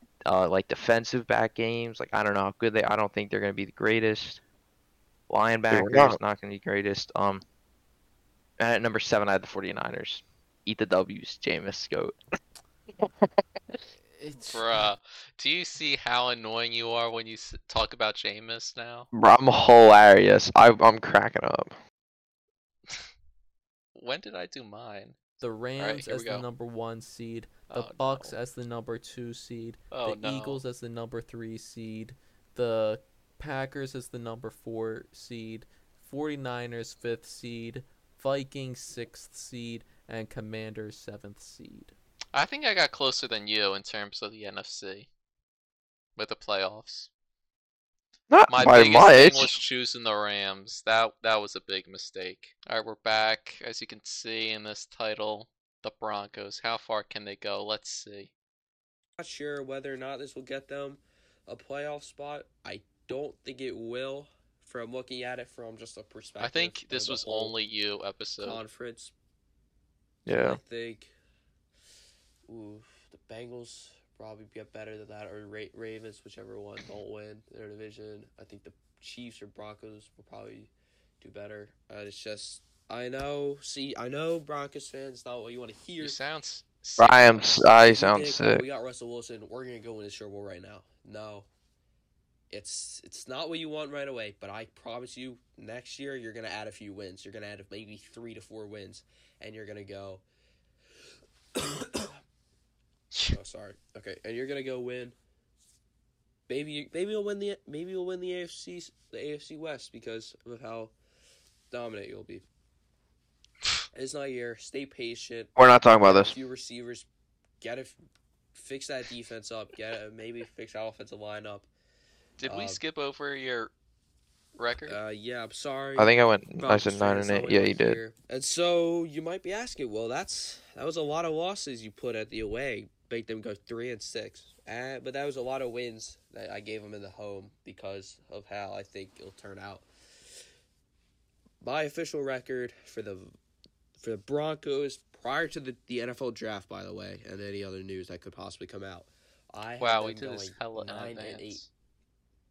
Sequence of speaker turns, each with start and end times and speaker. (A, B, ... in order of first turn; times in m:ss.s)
0:00.2-0:04.4 A
0:05.3-0:07.4 A
0:05.7-0:06.2 B
0:08.6-0:12.2 A
0:14.0-0:14.9 C
0:14.5-0:19.1 D
0:19.1-0:21.8 B
0:24.0-0:25.2 D
0:25.4-0:41.9 C
0:25.8-0:26.4 D
0:27.7-0:28.4 D
0:29.9-0:30.6 D
0:42.3-0:45.1 D
0:46.2-0:47.1 D
0:48.3-0:49.5 B
0:48.5-0:58.3 D
0:59.2-1:07.5 E
1:06.4-1:08.6 D
1:08.4-1:09.1 E
1:10.3-1:10.6 B
1:10.3-1:11.1 E
1:12.5-1:20.7 E
1:21.2-1:26.2 E
1:26.0-1:27.7 D
1:27.0-1:28.6 B
1:27.8-1:31.5 E
1:32.5-1:40.2 E
1:41.6-1:42.2 E
1:43.3-1:45.2 E
1:46.5-1:50.9 E
1:51.7-1:52.4 E
1:53.9-1:57.1 E
1:55.6-1:56.4 B
1:57.6-1:58.0 E
1:58.5-2:01.7 E
2:02.4-2:03.7 D
2:02.5-2:02.8 E
2:04.6-2:05.0 D
2:04.9-2:19.9 E
2:06.0-2:08.0 B
2:21.6-2:23.4 E
2:24.0-2:31.7 E
2:29.8-2:31.7 D